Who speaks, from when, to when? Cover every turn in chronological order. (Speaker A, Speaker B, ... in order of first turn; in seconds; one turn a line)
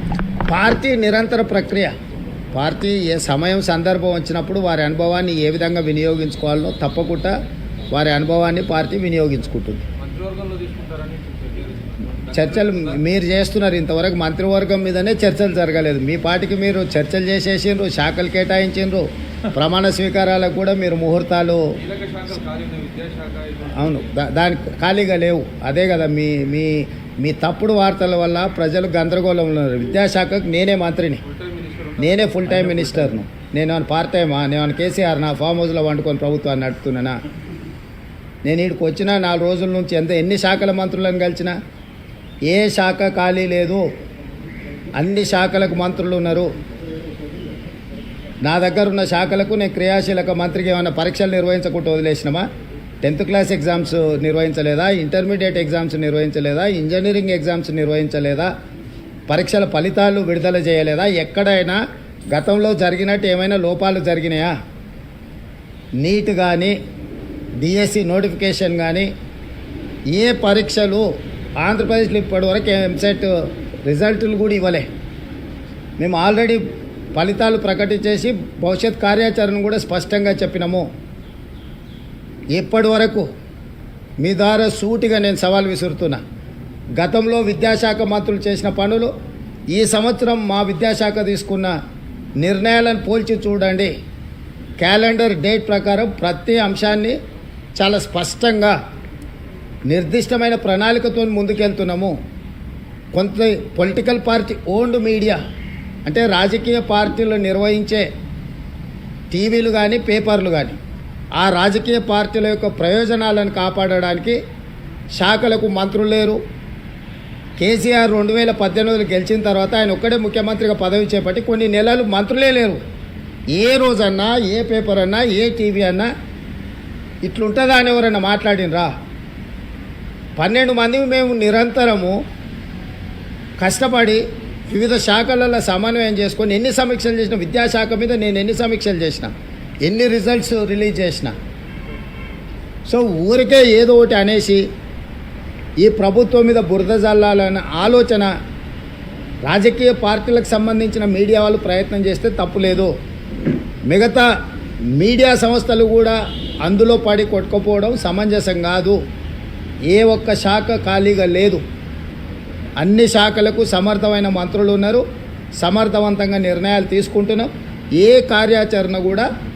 Speaker A: 0.5-1.9
Speaker A: 2.5-7.3
Speaker A: 7.9-9.8
Speaker B: 10.0-13.0
Speaker A: 12.3-21.6
Speaker B: 21.8-24.1
Speaker A: 23.7-31.2
Speaker B: 31.2-33.1
Speaker A: 32.0-37.2
Speaker A: 38.4-41.5
Speaker A: 42.5-43.8
Speaker A: 45.0-46.5
Speaker A: 48.4-52.5
Speaker A: 53.0-58.5
Speaker A: 59.3-61.8
Speaker A: 62.3-64.5
Speaker A: 66.0-66.7
Speaker A: 67.6-69.1
Speaker A: 70.1-71.0
Speaker A: 71.6-74.9
Speaker A: 76.0-80.9
Speaker A: 82.5-83.2
Speaker A: 84.2-86.2
Speaker A: 87.0-89.1
Speaker A: 89.7-91.7
Speaker A: 92.4-93.9
Speaker A: 94.8-97.2
Speaker A: 97.8-98.7
Speaker A: 99.9-102.1
Speaker A: 103.1-105.4
Speaker A: 106.0-108.0
Speaker A: 109.3-110.8
Speaker A: 111.3-114.4
Speaker A: 115.2-116.4
Speaker A: 117.6-122.8
Speaker A: 123.5-126.1
Speaker A: 127.2-128.9
Speaker A: 130.4-132.2
Speaker A: 133.6-139.3
Speaker A: 139.8-141.3
Speaker A: 142.8-144.6
Speaker A: 145.8-148.3
Speaker A: 149.4-152.9
Speaker A: 153.9-154.3
Speaker A: 154.9-159.0
Speaker A: 159.9-161.6
Speaker A: 162.8-165.0
Speaker A: 165.6-169.3